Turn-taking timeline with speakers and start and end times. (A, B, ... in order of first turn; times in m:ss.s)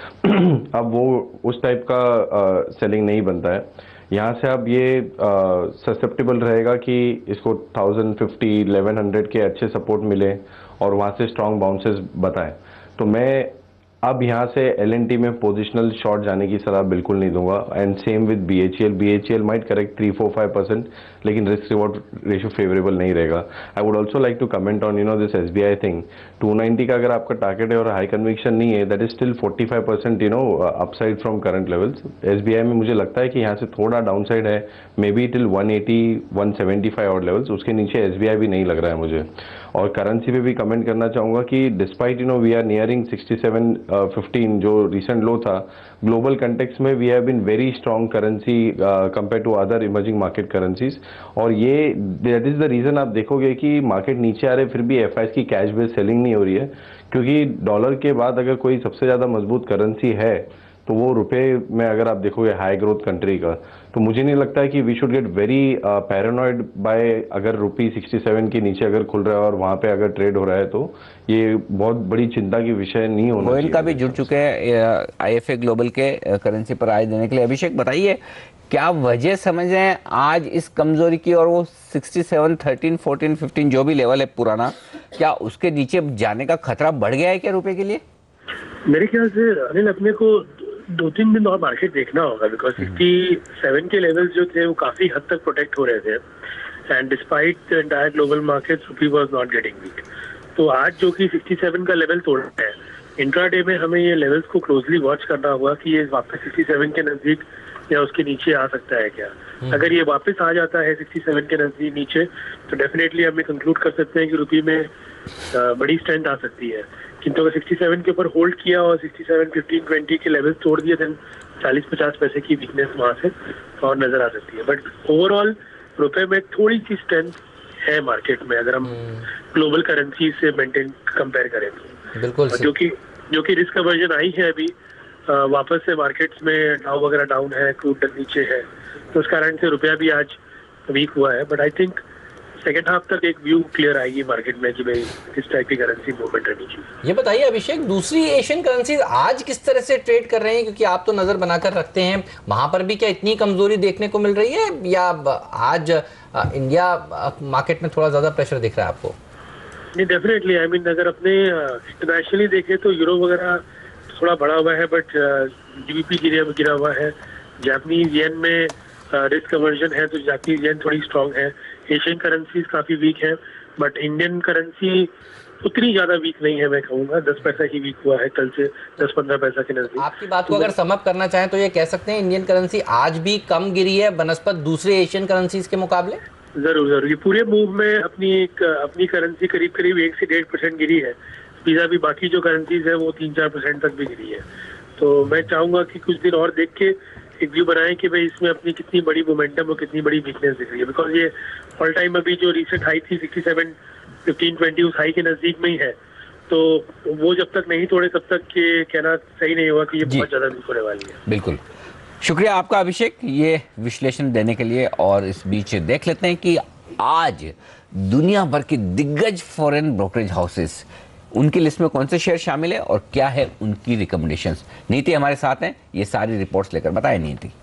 0:00.2-1:14.2 A
1:13.4-1:28.0 B
1:28.9-1:36.2 C
1:36.9-1:40.0 C
1:40.6-1:54.9 C
1:55.5-2:11.9 C
2:12.2-2:12.7 D
2:12.5-2:14.7 C
2:15.3-2:22.0 C
2:22.6-2:26.9 C
2:27.0-2:39.2 D
2:39.9-2:55.1 C
2:55.6-3:00.7 C
3:00.0-3:06.2 D
3:06.6-3:14.4 C
3:15.0-3:26.0 C
3:26.5-3:31.2 C
3:31.3-3:31.6 B
3:32.2-3:47.5 B